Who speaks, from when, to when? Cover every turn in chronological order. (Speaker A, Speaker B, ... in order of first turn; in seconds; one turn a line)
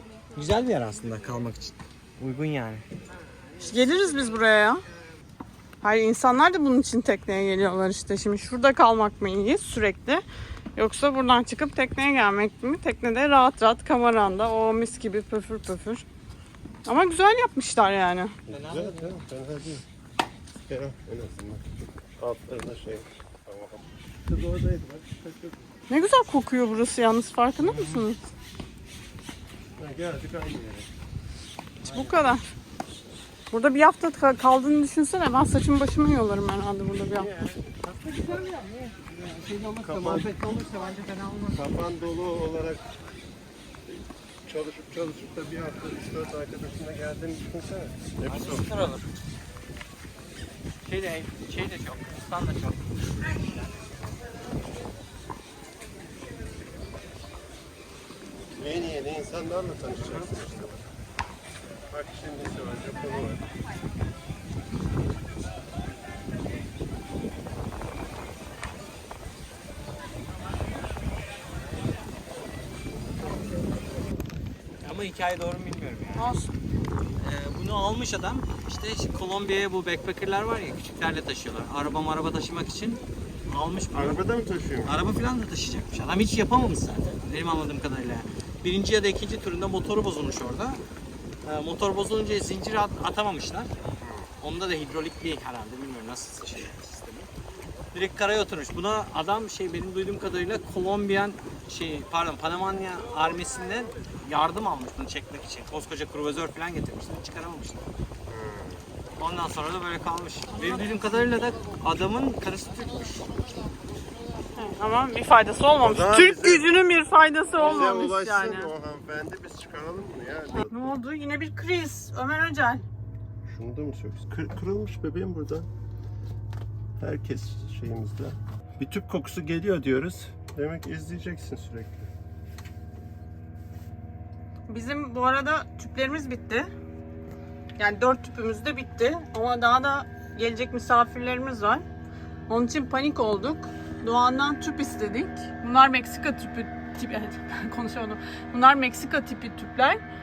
Speaker A: 0.3-2.8
Speaker B: 3.6-4.8
Speaker B: 5.8-10.2
Speaker B: 10.8-16.0
Speaker B: 16.9-18.3
Speaker C: 18.5-19.8
Speaker A: 18.5-19.1
Speaker C: 20.6-21.6
Speaker C: 22.2-25.6
Speaker B: 25.9-28.2
Speaker C: 27.6-28.0
Speaker C: 29.8-30.9
Speaker B: 31.8-32.4
Speaker B: 33.5-37.3
Speaker A: 38.0-41.6
Speaker C: 39.8-40.4
Speaker C: 41.5-42.8
Speaker C: 43.9-48.7
Speaker A: 48.3-49.0
Speaker A: 50.8-53.4
Speaker C: 58.5-60.8
Speaker C: 61.9-63.4
Speaker A: 74.8-76.3
Speaker B: 76.2-76.5
Speaker A: 77.2-84.2
Speaker C: 83.9-84.9
Speaker A: 84.8-90.8
Speaker A: 91.4-93.7
Speaker C: 94.0-94.3
Speaker A: 94.4-97.3
Speaker A: 97.9-107.8
Speaker C: 108.3-108.8
Speaker A: 109.2-113.3
Speaker B: 114.5-118.7
Speaker C: 115.8-116.7
Speaker C: 117.5-120.7
Speaker B: 120.6-122.8
Speaker C: 123.4-125.7
Speaker C: 127.0-132.1
Speaker B: 134.7-136.7
Speaker B: 137.8-141.8
Speaker B: 142.5-150.0